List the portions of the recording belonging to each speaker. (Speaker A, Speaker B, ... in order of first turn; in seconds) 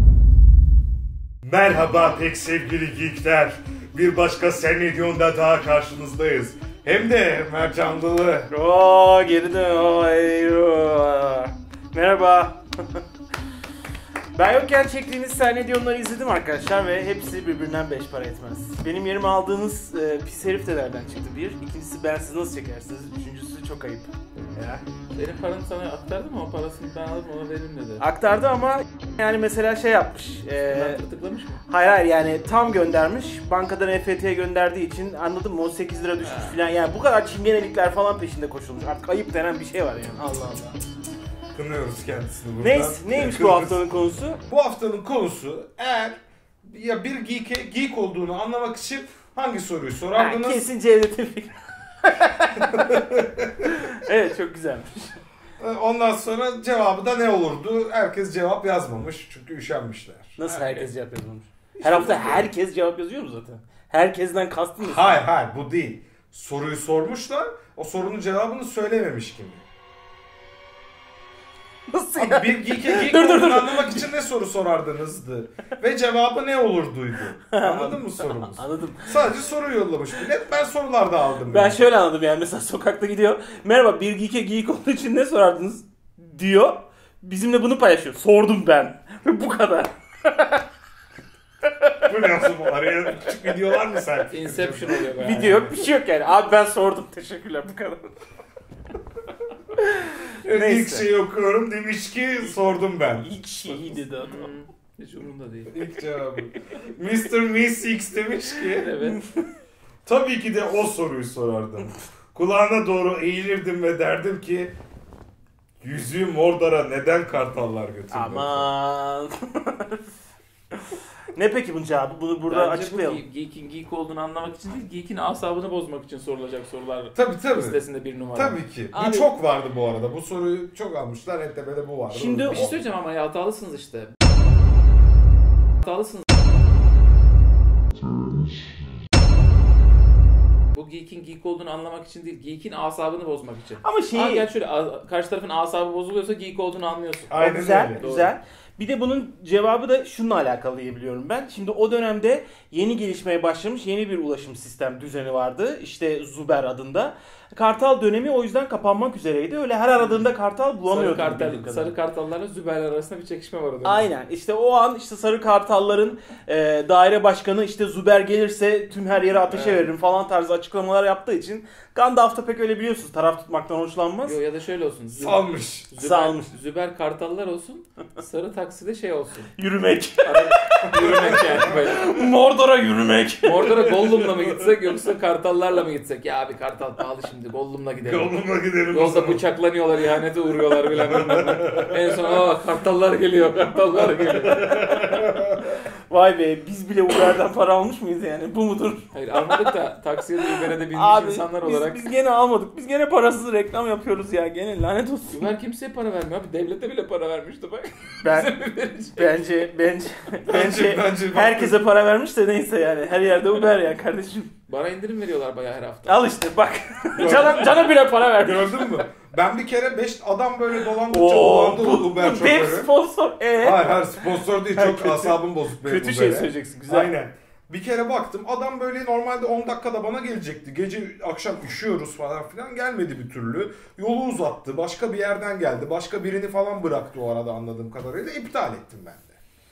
Speaker A: 1.4-8.5, 41.5-43.8, 44.5-50.6, 52.6-53.8, 55.6-60.4, 61.8-62.5, 64.8-69.6, 72.2-81.8, 92.0-95.7, 100.4-104.0, 105.7-108.9, 110.0-114.7, 115.8-118.7, 127.1-127.8, 128.3-132.9, 147.3-148.1, 175.1-175.9, 180.8-181.9, 183.7-184.7, 188.0-189.4, 190.9-192.2, 194.4-195.7, 210.5-211.8, 217.1-222.9, 223.6-239.3
Speaker B: 8.5-13.0, 14.3-24.8, 28.0-31.0, 31.7-40.8, 42.6-44.4, 50.1-53.0, 53.6-55.2, 60.4-65.2, 71.9-74.1, 77.5-79.2, 81.5-90.6, 91.6-92.1, 95.1-98.1, 99.8-101.1, 103.2-104.5, 109.0-109.4, 118.1-120.1, 121.3-123.2, 128.9-129.3, 132.1-132.6, 143.8-144.5, 147.4-161.9, 163.8-174.4, 175.9-176.5, 179.6-180.9, 181.7-183.8, 196.1-199.7, 200.5-205.5, 208.2-208.6, 209.1-214.5, 216.1-219.0, 221.1-224.1, 224.7-227.1
Speaker C: 25.1-28.0, 30.6-31.6, 36.2-36.6, 60.5-60.9, 94.3-95.7, 104.2-105.8, 108.6-109.2, 122.5-128.6, 132.4-134.1, 135.8-136.2, 140.7-147.4, 148.0-148.3, 159.9-160.3, 160.9-164.1, 169.5-169.9, 174.2-179.5, 180.2-182.2, 183.4-188.3, 188.9-194.7, 199.1-202.0, 205.3-209.4, 214.7-216.3